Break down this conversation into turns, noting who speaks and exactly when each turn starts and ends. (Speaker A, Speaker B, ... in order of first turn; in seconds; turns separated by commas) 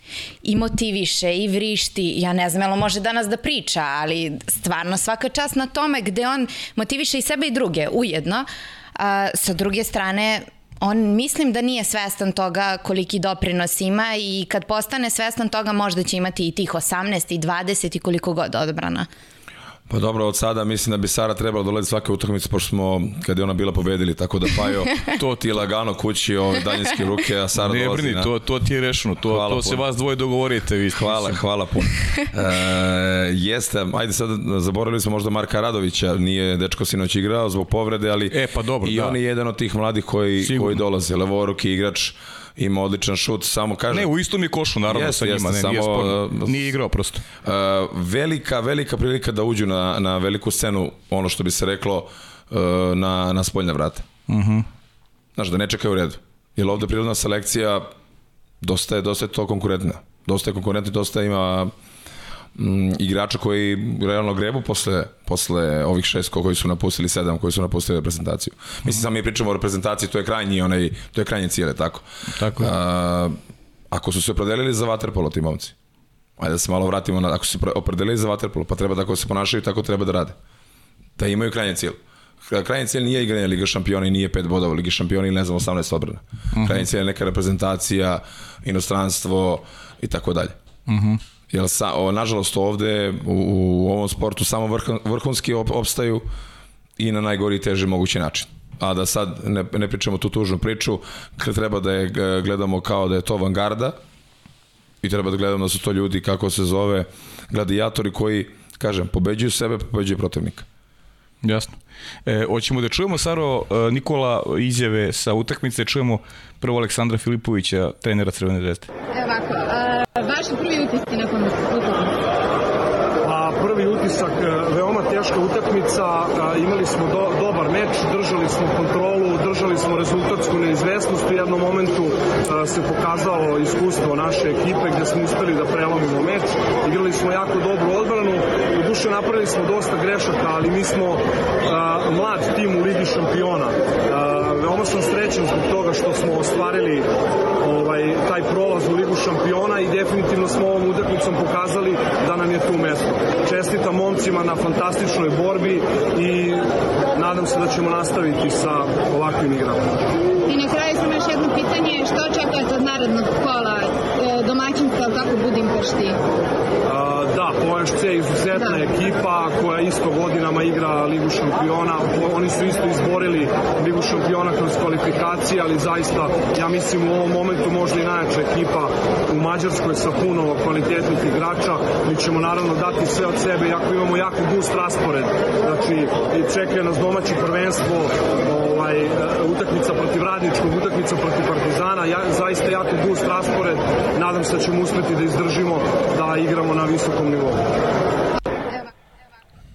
Speaker A: 0.4-19.1, Speaker B: 19.9-28.3, Speaker C: 27.5-31.4, Speaker B: 29.2-29.8, Speaker B: 30.9-44.1, Speaker C: 38.3-39.2, Speaker C: 40.4-40.8, Speaker C: 43.9-47.2, Speaker B: 44.9-46.7, Speaker B: 47.4-54.1, Speaker C: 54.3-54.7, Speaker B: 55.4-57.9, Speaker B: 58.6-61.7, Speaker B: 62.5-73.3, Speaker C: 72.4-72.7, Speaker B: 73.9-75.7, Speaker B: 76.4-80.3, Speaker B: 81.2-90.5, Speaker C: 86.5-86.8, Speaker C: 90.9-91.2, Speaker B: 91.5-96.3, Speaker B: 97.0-104.0, Speaker B: 105.0-110.7, Speaker C: 111.4-118.9, Speaker D: 119.1-122.1, Speaker E: 123.2-147.1, Speaker E: 147.6-160.0, Speaker D: 160.5-166.2, Speaker E: 166.8-197.6